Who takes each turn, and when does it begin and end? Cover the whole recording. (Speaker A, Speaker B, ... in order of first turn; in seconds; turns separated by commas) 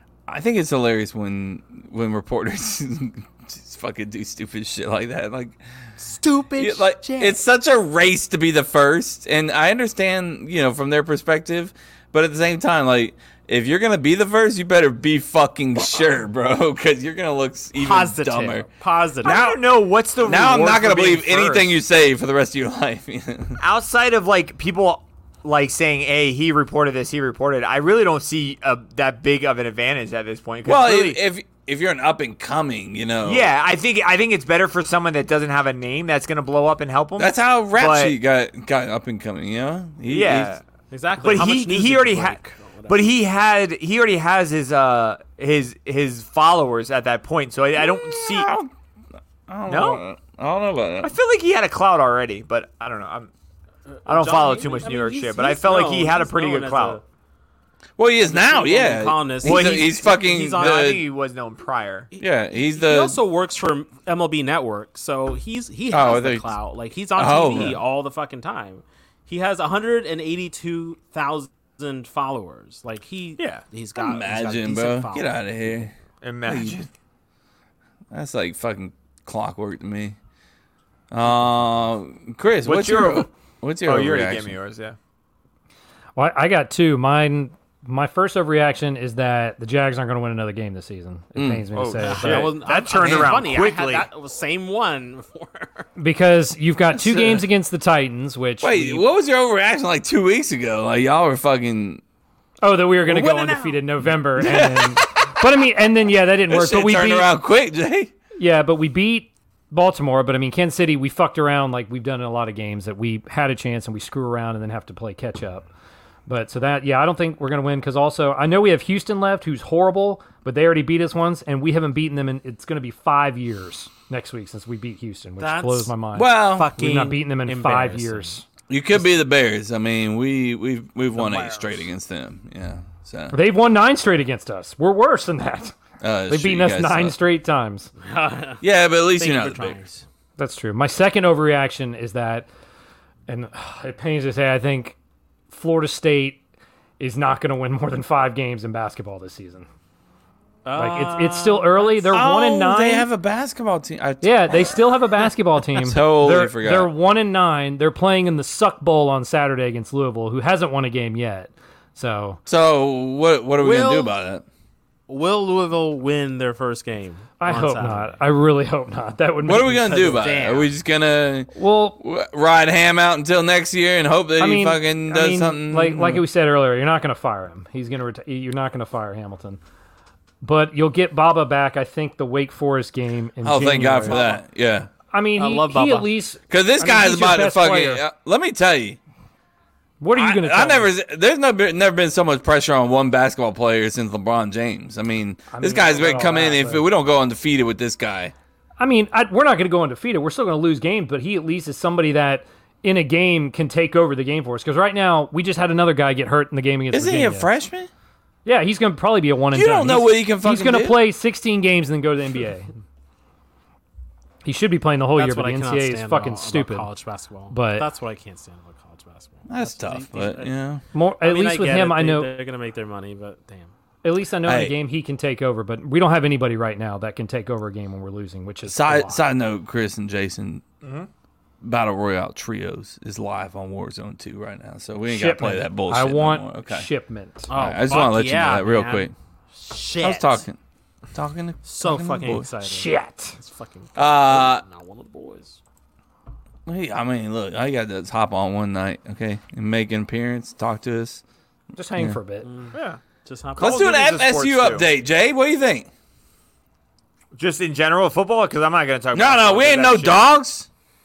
Speaker A: 0.3-5.6, Speaker B: 6.0-7.4, Speaker A: 6.6-18.7, Speaker B: 17.8-19.4, Speaker A: 19.2-19.6, Speaker C: 19.2-21.7, Speaker A: 20.2-23.6, Speaker C: 23.6-31.2, Speaker A: 30.6-33.5, Speaker C: 33.2-38.1, Speaker A: 37.2-40.5, Speaker C: 40.1-40.6, Speaker B: 40.9-43.1, Speaker C: 41.2-48.5, Speaker A: 47.8-48.7, Speaker A: 49.5-51.1, Speaker C: 49.7-50.0, Speaker C: 51.0-53.3, Speaker B: 54.0-57.0, Speaker C: 54.0-57.0, Speaker A: 58.0-61.0, Speaker B: 58.2-60.9, Speaker C: 59.4-62.1, Speaker B: 62.1-75.9, Speaker A: 62.2-63.2, Speaker A: 65.9-66.5, Speaker A: 67.2-67.8, Speaker A: 74.0-75.9, Speaker C: 76.2-76.8, Speaker A: 76.4-76.9, Speaker A: 78.1-80.2, Speaker A: 81.1-84.5, Speaker C: 82.6-83.3, Speaker C: 83.8-85.0, Speaker D: 86.2-92.5, Speaker A: 91.3-91.7, Speaker C: 91.7-94.0, Speaker B: 92.0-95.9, Speaker D: 96.0-99.0, Speaker A: 97.0-97.4, Speaker A: 98.6-102.0, Speaker D: 102.6-107.3, Speaker B: 103.0-103.8, Speaker A: 104.4-105.4, Speaker A: 106.5-108.1, Speaker D: 108.4-115.7, Speaker D: 116.3-128.4, Speaker B: 125.4-125.9, Speaker A: 126.1-126.7, Speaker B: 126.4-128.3, Speaker A: 128.7-133.3, Speaker B: 131.2-131.9, Speaker D: 133.3-135.7, Speaker A: 136.0-137.2, Speaker D: 136.3-137.9, Speaker B: 138.0-138.6, Speaker A: 138.6-139.8, Speaker B: 139.2-140.0, Speaker D: 140.4-142.5, Speaker D: 143.3-144.9, Speaker D: 145.5-146.4, Speaker D: 147.0-149.7, Speaker B: 150.6-152.1, Speaker D: 150.8-153.1, Speaker A: 152.1-154.8, Speaker D: 154.2-162.4, Speaker A: 155.7-156.9, Speaker A: 162.4-164.4, Speaker B: 163.6-164.1, Speaker B: 165.1-168.2, Speaker D: 167.4-170.2, Speaker A: 169.4-176.2, Speaker B: 169.9-170.7, Speaker D: 171.5-172.0, Speaker D: 174.4-179.6, Speaker D: 180.4-184.2, Speaker A: 183.4-184.9, Speaker B: 184.1-184.4, Speaker D: 185.1-188.0, Speaker B: 185.4-186.1, Speaker A: 186.5-189.0, Speaker D: 190.0-190.9, Speaker A: 190.1-198.3, Speaker D: 195.5-196.8, Speaker D: 198.8-207.5, Speaker A: 206.9-207.9, Speaker D: 208.4-212.7, Speaker A: 209.5-211.0, Speaker D: 214.4-216.9, Speaker B: 215.2-220.5, Speaker D: 217.5-217.9, Speaker A: 219.5-220.8, Speaker D: 220.9-222.3, Speaker B: 221.2-223.7, Speaker D: 224.0-229.2, Speaker A: 224.4-224.7, Speaker A: 228.7-230.6, Speaker C: 230.8-231.1, Speaker A: 231.6-236.9, Speaker D: 235.1-237.5, Speaker B: 237.5-240.4, Speaker A: 237.5-239.1, Speaker A: 240.0-240.6, Speaker A: 241.1-242.5, Speaker B: 241.6-245.6, Speaker D: 242.6-243.4, Speaker A: 243.9-244.6, Speaker A: 246.7-251.2, Speaker D: 251.7-252.5, Speaker B: 252.4-253.9, Speaker C: 252.7-253.0, Speaker A: 253.6-255.9, Speaker C: 253.6-254.9, Speaker C: 257.3-260.3, Speaker A: 259.1-260.7